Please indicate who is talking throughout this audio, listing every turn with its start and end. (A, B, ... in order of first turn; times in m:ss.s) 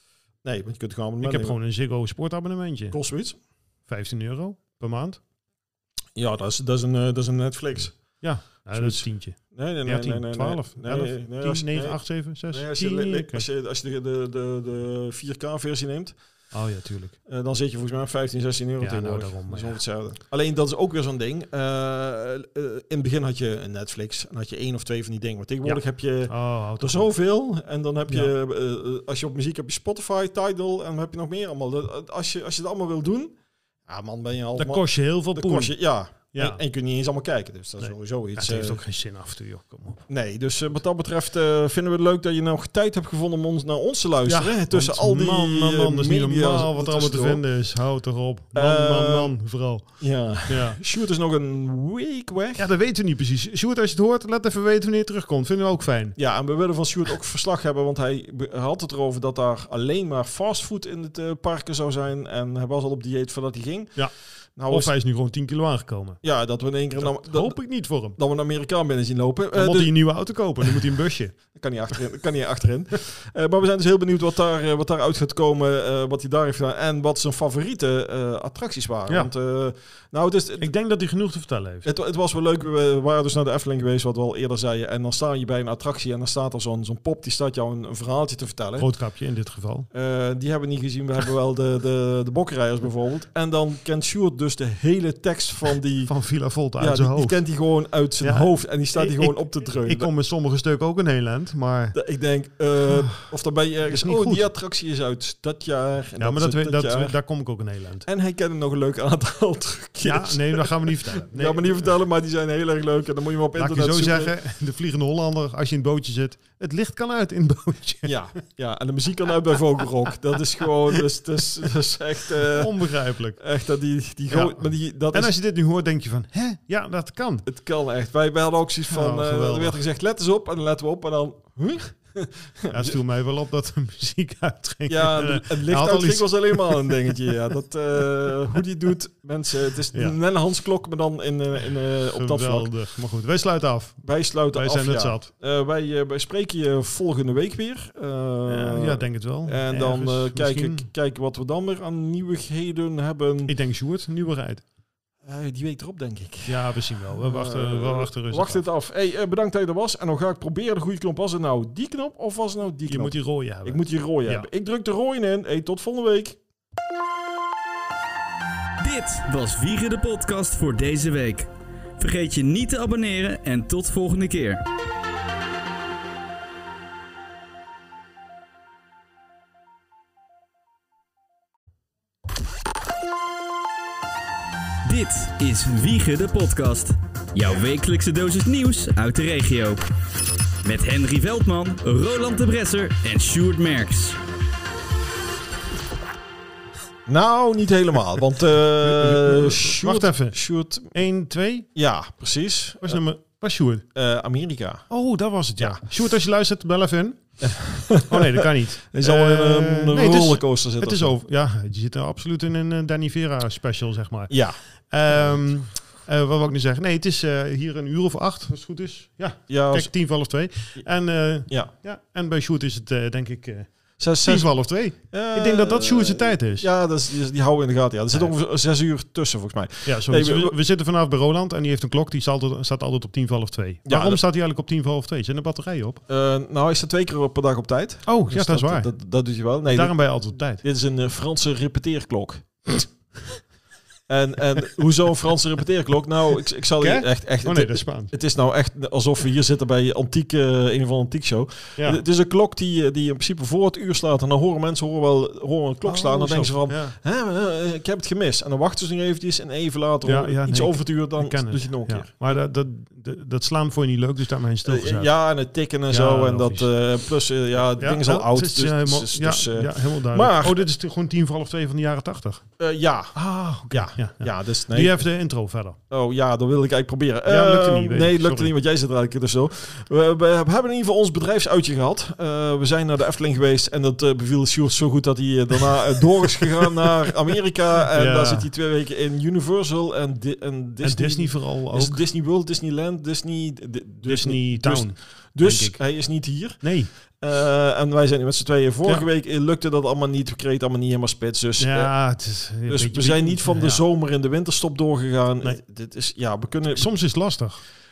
0:00.4-0:01.6 A
0:01.2-0:03.0 B
0:02.9-0:03.4 A
0:03.8-0:05.2 B
0:06.1-0:16.2 A
0:08.2-0:13.4 B
0:16.5-0:17.2 B
0:17.3-0:33.4 A
0:18.8-0:19.8 B
0:25.6-0:27.1 B
0:33.9-0:38.8 A
0:34.6-0:36.6 B
0:37.8-0:40.0 B
0:40.1-0:47.4 A
0:44.2-0:50.8 B
0:48.5-0:49.3 A
0:50.0-0:52.6 A
0:52.6-0:56.2 B
0:56.2-1:04.9 A
1:04.7-1:06.2 B
1:06.2-1:10.1 A
1:07.0-1:08.2 B
1:09.5-1:11.4 B
1:11.5-1:20.7 A
1:20.6-1:21.9 B
1:21.8-1:28.9 A
1:28.8-1:29.9 B
1:29.9-1:36.1 A
1:36.1-1:37.4 B
1:36.8-1:40.1 A
1:38.2-1:42.0 B
1:41.9-1:47.2 A
1:42.9-1:43.2 B
1:43.9-1:44.5 B
1:46.2-1:48.1 B
1:48.0-1:54.3 A
1:50.0-1:51.9 B
1:53.6-1:58.2 B
1:58.0-2:05.3 A
2:02.4-2:03.4 B
2:04.3-2:07.5 B
2:07.5-2:13.0 A
2:08.9-2:09.8 B
2:12.7-2:17.3 B
2:14.9-2:22.7 A
2:19.9-2:20.2 B
2:22.1-2:25.3 B
2:24.0-2:33.5 A
2:28.5-2:30.9 B
2:33.5-2:34.6 B
2:35.2-2:46.4 A
2:36.5-2:38.6 B
2:42.9-2:44.5 B
2:48.8-2:54.6 C
3:04.8-3:09.8 C
3:10.6-3:14.2 C
3:17.1-3:20.9 A
3:18.8-3:20.4 B
3:20.9-3:21.7 B
3:21.8-3:23.0 A
3:22.8-3:23.8 B
3:23.9-3:24.9 A
3:24.9-3:34.4 B
3:27.4-3:31.1 A
3:34.3-3:34.6 A
3:34.9-3:43.7 B
3:39.5-3:39.9 A
3:44.0-3:44.5 A
3:44.2-3:46.7 B
3:45.1-3:50.5 A
3:49.8-3:56.0 B
3:53.9-3:54.2 A
3:56.1-4:02.8 A
3:58.0-3:58.9 B
3:59.7-4:00.6 B
4:04.1-4:22.1 A
4:06.8-4:08.1 B
4:15.8-4:17.0 B
4:20.0-4:25.1 B
4:24.6-4:30.6 A
4:25.9-4:26.7 B
4:27.8-4:32.4 B
4:32.6-4:35.0 A
4:33.1-4:35.8 B
4:35.9-5:01.9 A
4:37.2-4:38.5 B
4:47.9-4:48.5 B
4:50.8-4:52.0 B
4:54.0-4:55.8 B
4:56.6-4:56.9 B
5:01.6-5:03.8 B
5:02.6-5:06.9 A
5:06.8-5:07.6 B